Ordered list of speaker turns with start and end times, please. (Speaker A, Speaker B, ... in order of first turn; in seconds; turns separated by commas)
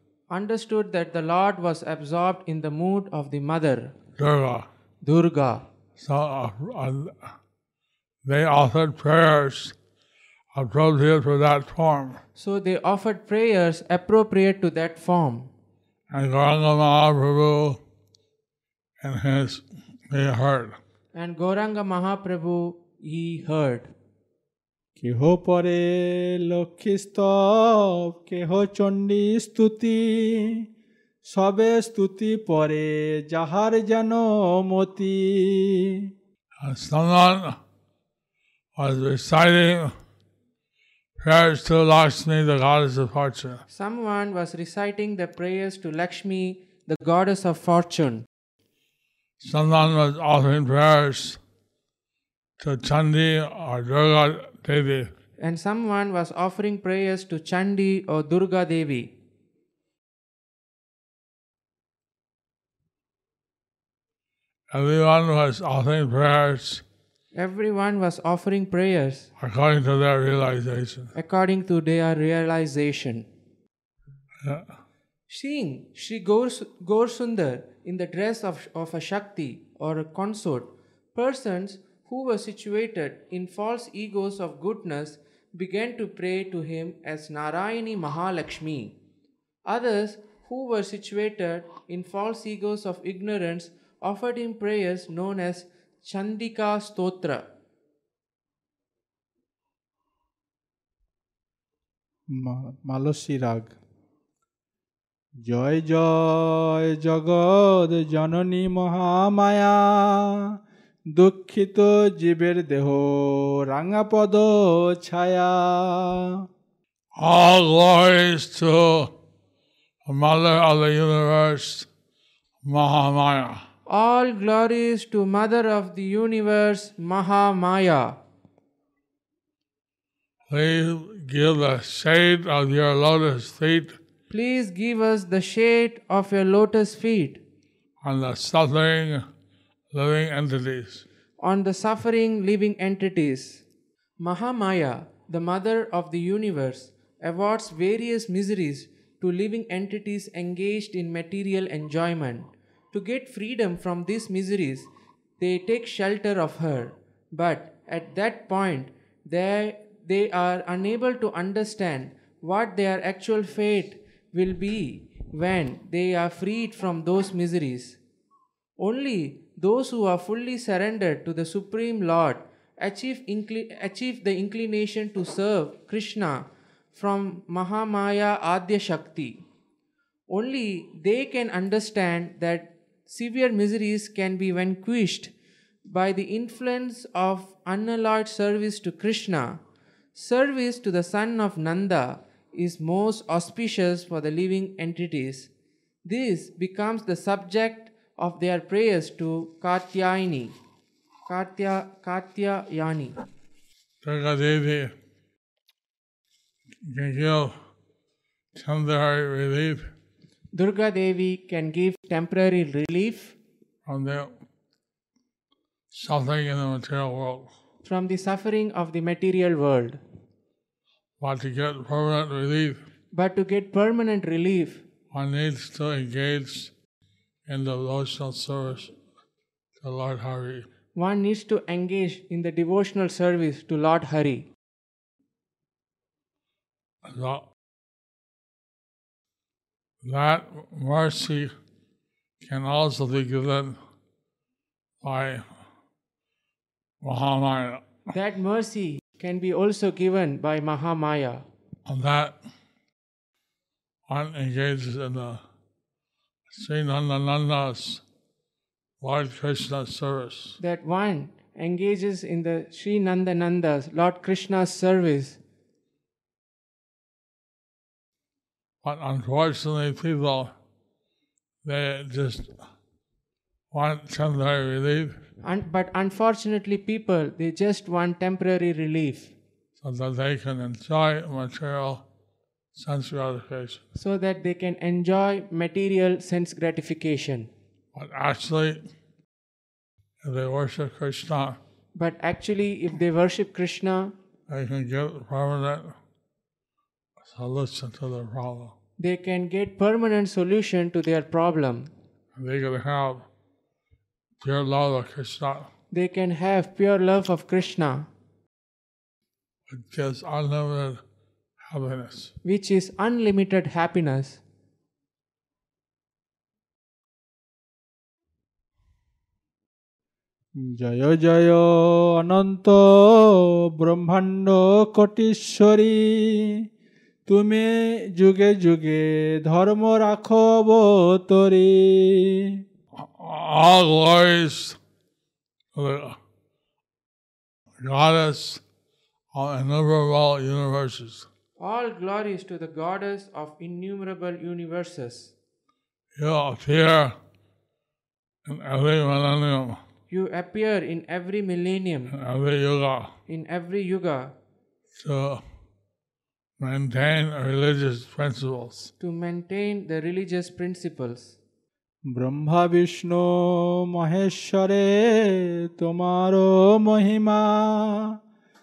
Speaker A: 0.3-4.0, Speaker B: 4.2-4.7, Speaker A: 5.0-5.7, Speaker B: 6.0-7.3, Speaker B: 8.2-9.7, Speaker B: 10.5-12.2, Speaker A: 12.3-15.5, Speaker B: 16.1-17.8, Speaker B: 19.0-20.8, Speaker A: 21.1-23.9, Speaker C: 25.0-30.6, Speaker C: 31.2-36.1, Speaker B: 36.6-37.6, Speaker B: 38.8-39.9, Speaker B: 41.2-43.6, Speaker A: 43.7-48.2, Speaker B: 49.4-51.4, Speaker B: 52.6-55.1, Speaker A: 55.4-59.1, Speaker B: 64.7-66.8, Speaker A: 67.3-69.3, Speaker B: 69.4-71.1, Speaker A: 71.1-73.3, Speaker B: 74.4-74.7, Speaker A: 75.3-88.9, Speaker A: 89.7-97.5, Speaker C: 102.3-103.8, Speaker C: 105.4-110.5, Speaker C: 111.1-116.4, Speaker B: 117.2-119.1, Speaker B: 120.0-121.9, Speaker B: 122.6-123.6, Speaker A: 123.9-128.2, Speaker B: 130.5-134.0, Speaker A: 134.3-137.4, Speaker B: 138.0-139.2, Speaker B: 139.9-141.0, Speaker A: 141.4-143.6, Speaker A: 144.2-154.9, Speaker A: 155.4-168.0, Speaker A: 168.8-179.4, Speaker A: 180.3-185.3, Speaker A: 185.8-189.6, Speaker A: 190.1-195.5, Speaker A: 196.0-200.5, Speaker A: 201.3-203.2, Speaker B: 204.0-204.9, Speaker B: 206.8-207.5, Speaker B: 208.5-209.9, Speaker A: 210.5-213.3, Speaker B: 213.8-214.3, Speaker B: 215.9-217.5, Speaker A: 217.8-220.0, Speaker B: 221.2-222.8, Speaker A: 223.1-224.8, Speaker B: 225.1-226.7, Speaker B: 227.5-228.9, Speaker B: 229.8-230.7, Speaker A: 230.9-234.5, Speaker B: 237.0-237.4, Speaker B: 240.0-241.5, Speaker B: 242.4-243.8, Speaker B: 245.0-245.4, Speaker B: 247.0-247.8, Speaker A: 248.1-251.4, Speaker B: 251.8-252.3, Speaker B: 254.1-255.4, Speaker B: 256.5-258.0, Speaker B: 259.0-260.6, Speaker A: 260.6-265.4, Speaker B: 268.8-270.5, Speaker B: 271.6-272.5, Speaker B: 273.7-275.2, Speaker A: 275.4-279.3, Speaker B: 279.8-282.0, Speaker B: 282.7-283.8, Speaker A: 283.9-287.5, Speaker B: 287.9-288.8, Speaker B: 290.2-291.6, Speaker A: 291.9-294.1, Speaker B: 294.5-295.9, Speaker B: 297.2-298.7, Speaker A: 299.0-301.9, Speaker B: 302.4-303.2, Speaker B: 304.4-305.7, Speaker A: 305.9-308.1, Speaker B: 309.7-311.0, Speaker B: 311.6-312.3, Speaker A: 312.4-314.4, Speaker C: 320.6-326.6, Speaker C: 327.3-332.6, Speaker B: 333.0-334.8, Speaker B: 335.7-336.2, Speaker B: 337.8-338.6, Speaker B: 339.3-341.3, Speaker A: 341.6-345.3, Speaker B: 346.1-347.1, Speaker B: 348.4-349.8, Speaker A: 350.1-352.1, Speaker B: 352.1-353.1, Speaker A: 353.3-354.3, Speaker B: 354.9-355.4, Speaker B: 356.6-358.9, Speaker A: 359.0-361.4, Speaker C: 362.1-368.2